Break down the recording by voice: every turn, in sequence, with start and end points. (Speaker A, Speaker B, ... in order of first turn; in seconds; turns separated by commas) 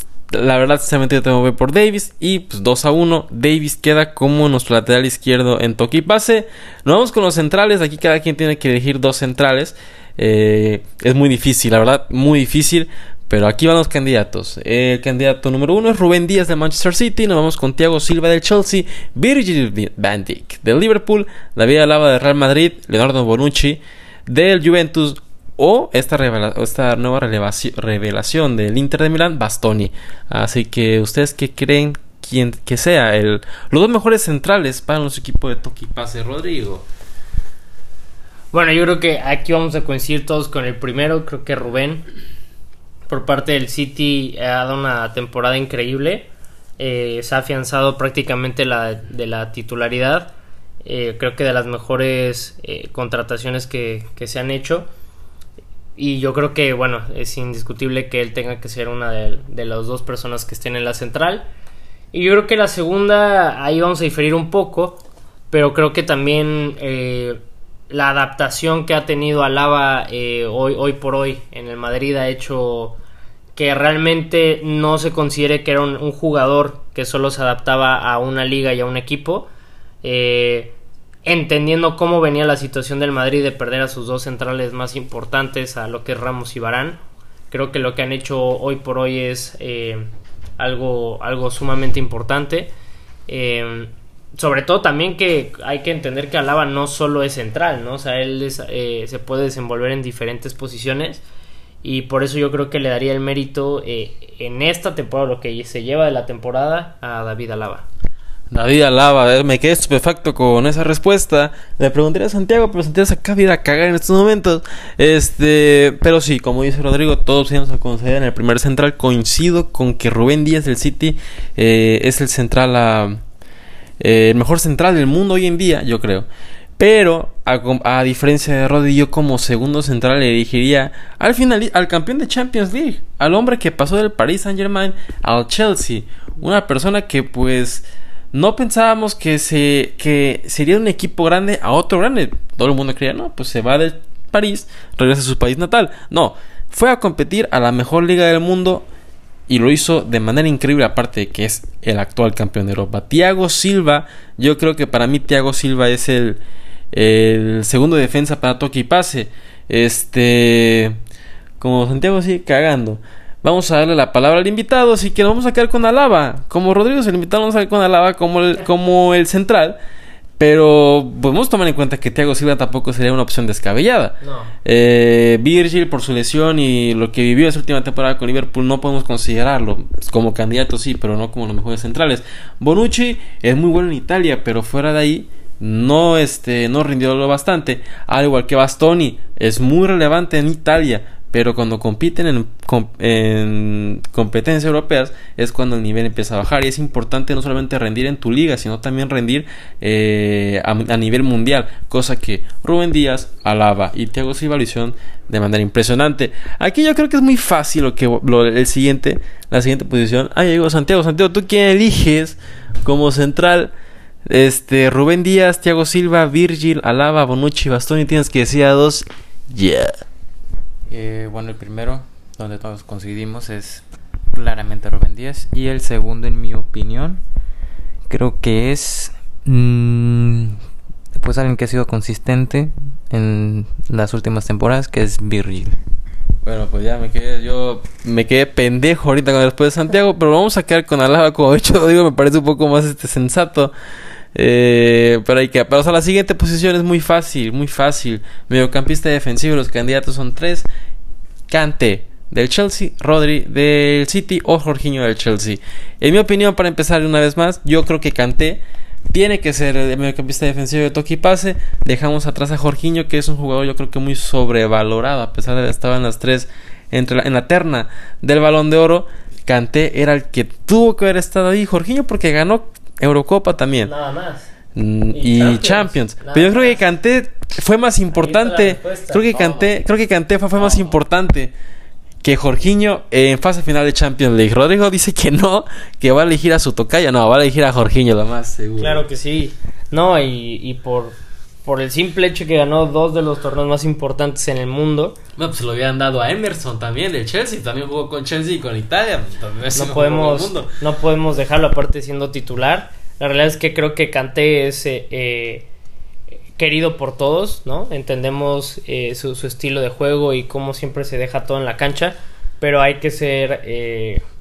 Speaker A: 0.3-36.9, Speaker B: 38.5-42.0, Speaker B: 43.1-46.3, Speaker B: 46.8-50.3, Speaker B: 50.8-54.9, Speaker B: 56.0-61.5, Speaker B: 62.1-73.0, Speaker B: 73.5-79.5, Speaker B: 80.0-87.0, Speaker B: 87.5-92.7, Speaker B: 93.3-101.2, Speaker B: 101.8-107.8, Speaker A: 108.5-123.2, Speaker A: 124.0-126.3, Speaker A: 126.8-148.8, Speaker A: 149.5-156.4, Speaker A: 156.9-160.9, Speaker A: 161.6-169.8, Speaker A: 170.4-213.7, Speaker B: 174.2-174.5, Speaker A: 214.2-219.9, Speaker C: 220.9-227.2, Speaker C: 228.1-230.6, Speaker C: 231.2-235.8, Speaker A: 236.4-243.7, Speaker A: 244.3-250.7, Speaker A: 251.5-273.9, Speaker B: 273.8-274.5, Speaker A: 274.7-281.5, Speaker B: 275.1-276.8, Speaker B: 278.1-279.7, Speaker B: 280.6-280.9, Speaker A: 282.2-289.0, Speaker B: 288.8-295.2, Speaker A: 295.4-300.7, Speaker B: 299.8-305.7, Speaker B: 306.6-314.2